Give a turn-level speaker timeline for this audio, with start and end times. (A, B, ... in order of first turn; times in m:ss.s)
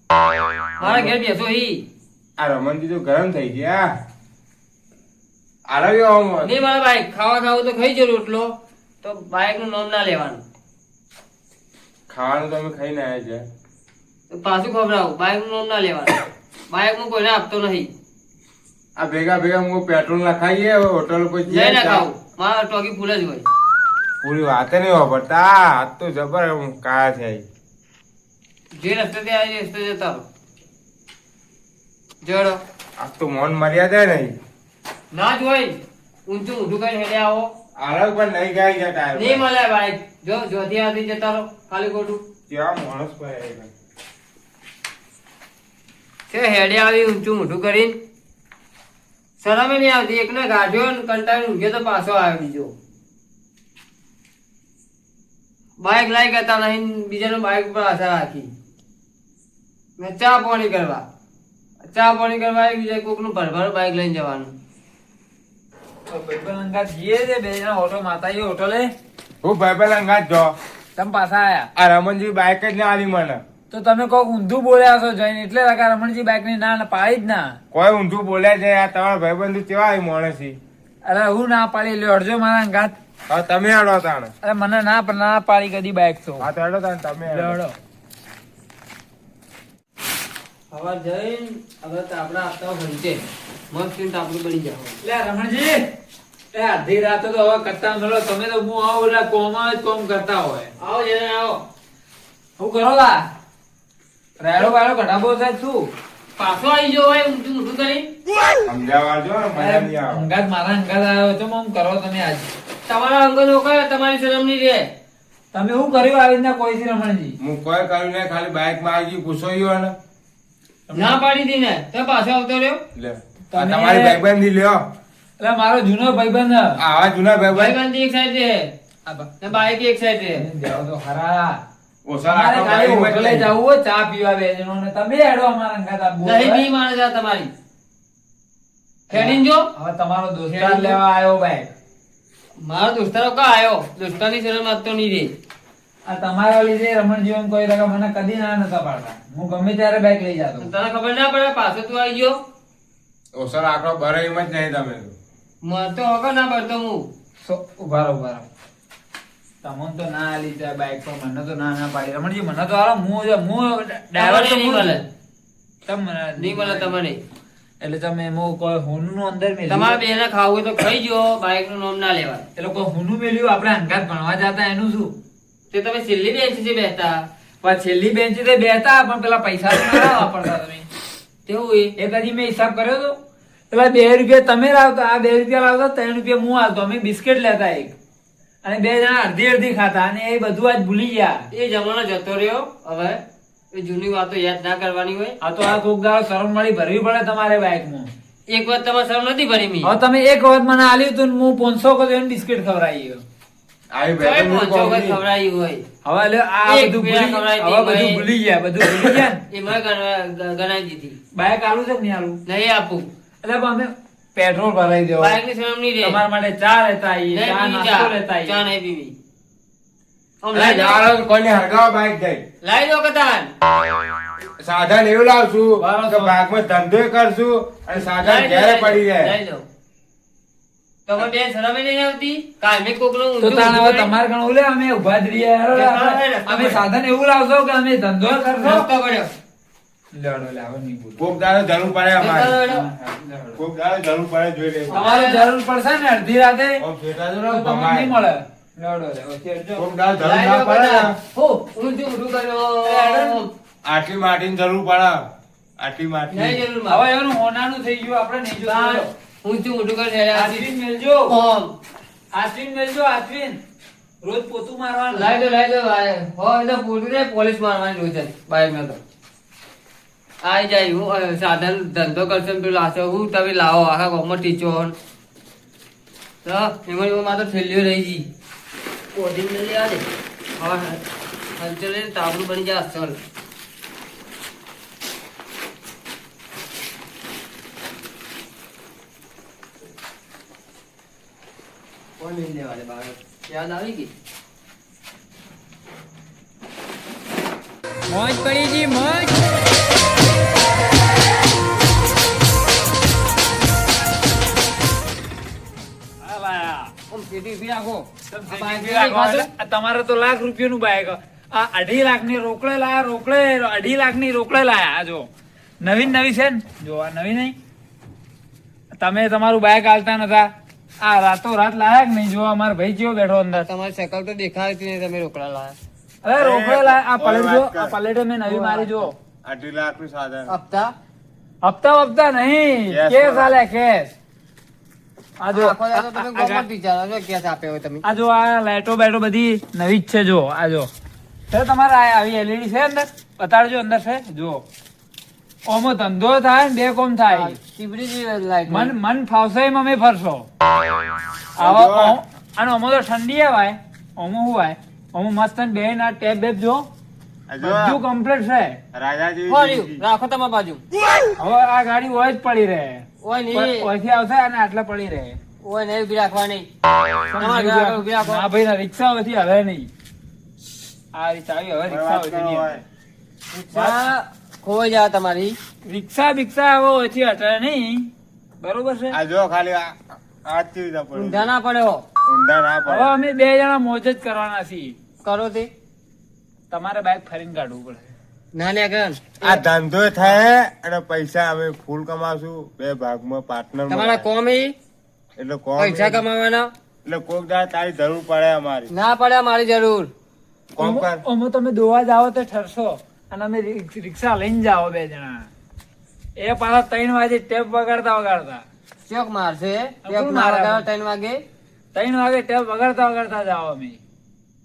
0:00.8-0:01.1 A
0:00.8-0:01.8 B
0:02.4-0:03.9 A
0:05.7-0:06.6 A
0:06.4-0:10.4 B
0:12.1-0:13.4 A
0:14.3-0:16.1 B
0:16.7-0:17.9 B
0:19.0-0:22.1 A
0:21.5-0:23.4 B
0:24.2-0:27.4 A
0:28.8-0:30.2 B
0:32.2-0:32.6 B
0:33.0-0:34.3 A
0:35.1-0:37.5 B
0:37.8-0:39.4 A
0:39.1-0:42.2 B
0:42.5-0:43.7 A
0:46.3-0:48.0 B
0:49.4-0:52.7 B
0:55.8-0:58.5 B
1:00.0-1:01.0 B
1:01.9-1:04.5 B
1:06.1-1:08.9 C
1:09.4-1:10.5 A
1:11.0-1:11.7 C
1:11.7-1:13.4 A
1:13.7-1:17.6 C
1:17.7-1:20.6 A
1:21.0-1:22.9 C
1:23.3-1:24.3 A
1:24.4-1:26.5 C
1:26.4-1:27.6 A
1:27.2-1:27.8 C
1:30.7-1:35.0 B
1:35.0-1:35.8 C
1:36.5-1:40.7 C
1:40.8-1:41.6 B
1:42.6-1:43.3 C
1:44.4-1:45.9 C
1:46.4-1:48.1 B
1:48.6-1:50.3 A
1:49.6-1:52.5 C
1:52.9-1:54.9 B
1:55.5-1:57.4 C
1:57.4-1:59.9 A
2:00.9-2:01.2 C
2:00.9-2:02.8 B
2:02.9-2:04.8 A
2:03.5-2:04.2 C
2:05.4-2:06.8 C
2:06.8-2:07.8 A
2:07.5-2:08.7 B
2:09.4-2:10.4 B
2:10.3-2:11.6 C
2:12.0-2:13.5 A
2:12.3-2:16.6 C
2:16.2-2:17.5 B
2:19.1-2:19.7 B
2:19.1-2:21.7 C
2:20.6-2:21.0 B
2:22.6-2:25.3 B
2:26.1-2:30.7 C
2:30.6-2:32.4 B
2:33.4-2:35.2 A
2:35.6-2:37.1 B
2:37.4-2:38.5 C
2:39.6-2:44.9 C
2:44.2-2:45.0 B
2:45.8-2:46.9 C
2:46.4-2:47.2 B
2:47.8-2:50.0 C
2:49.7-2:52.4 B
2:52.6-2:55.1 C
2:55.7-2:57.2 B
2:57.6-3:00.9 C
3:01.4-3:01.9 B
3:02.0-3:03.2 C
3:03.7-3:07.9 C
3:08.6-3:11.4 C
3:11.5-3:13.2 B
3:13.7-3:15.4 B
3:15.4-3:18.1 C
3:18.5-3:19.9 B
3:19.8-3:23.2 C
3:23.9-3:25.2 A
3:24.2-3:25.8 B
3:26.0-3:29.4 C
3:26.6-3:28.2 B
3:28.8-3:31.2 B
3:31.3-3:32.4 C
3:32.5-3:33.1 B
3:33.4-3:35.4 C
3:35.2-3:36.2 B
3:36.0-3:38.6 C
3:37.3-3:39.1 B
3:40.4-3:41.0 B
3:40.5-3:42.4 A
3:42.6-3:43.5 B
3:44.6-3:49.3 A
3:45.8-3:46.3 C
3:47.9-3:49.6 B
3:51.1-3:54.1 B
3:53.4-3:58.9 C
3:55.7-3:56.8 B
3:58.6-3:59.3 B
4:00.1-4:01.3 C
4:01.2-4:02.6 A
4:02.2-4:02.9 B
4:02.6-4:03.6 C
4:03.6-4:05.0 A
4:04.9-4:05.4 B
4:04.9-4:06.8 C
4:06.8-4:08.2 A
4:07.5-4:09.9 C
4:09.8-4:11.1 A
4:10.2-4:13.5 B
4:12.8-4:13.4 C
4:13.8-4:15.2 A
4:15.8-4:16.6 A
4:16.3-4:17.0 B
4:16.9-4:19.1 C
4:18.6-4:20.7 B
4:20.3-4:21.3 C
4:21.3-4:21.7 B
4:22.3-4:23.6 C
4:24.2-4:25.3 C
4:25.1-4:29.0 B
4:30.4-4:34.9 B
4:36.4-4:38.2 B
4:39.1-4:40.0 B
4:40.6-4:41.0 B
4:41.6-4:43.2 B
4:52.2-4:54.1 B
4:58.1-4:58.9 B
4:58.2-4:59.3 C
5:06.2-5:06.9 C
5:07.1-5:09.5 B
5:08.3-5:15.3 C
5:15.8-5:17.6 C
5:19.0-5:20.5 C
5:21.0-5:23.7 C
5:23.6-5:25.8 B
5:26.2-5:29.1 C
5:26.4-5:27.9 A
5:28.4-5:29.1 B
5:29.4-5:30.5 A
5:30.5-5:30.9 B
5:31.6-5:34.1 C
5:32.9-5:33.6 A
5:35.4-5:36.6 C
5:35.5-5:38.0 B
5:38.0-5:40.9 C
5:41.5-5:44.6 C
5:45.7-5:47.6 C
5:47.3-5:48.9 B
5:48.7-5:50.5 C
5:51.5-5:52.2 A
5:51.6-5:56.8 C
5:57.5-5:58.0 A
5:57.6-5:58.8 C
5:58.9-6:00.0 A
5:59.5-6:00.8 B
6:01.4-6:05.4 C
6:03.2-6:03.9 B
6:05.6-6:06.7 B
6:07.3-6:09.9 C
6:07.3-6:08.4 B
6:11.1-6:12.8 C
6:11.9-6:12.8 A
6:13.5-6:15.6 B
6:13.7-6:14.0 C
6:15.8-6:18.1 C
6:18.6-6:19.2 C
6:19.1-6:21.5 A
6:21.1-6:22.0 B
6:22.2-6:23.1 A
6:22.9-6:24.9 C
6:25.2-6:25.7 B
6:26.7-6:28.1 C
6:28.5-6:29.6 B
6:29.4-6:34.2 A
6:33.9-6:34.7 B
6:35.4-6:36.2 A
6:35.8-6:36.7 B
6:37.0-6:38.9 A
6:38.9-6:40.1 B
6:40.7-6:41.2 A
6:40.8-6:45.5 C
6:46.4-6:48.6 C
6:49.1-6:51.4 B
6:50.0-6:50.8 C
6:51.9-6:54.0 C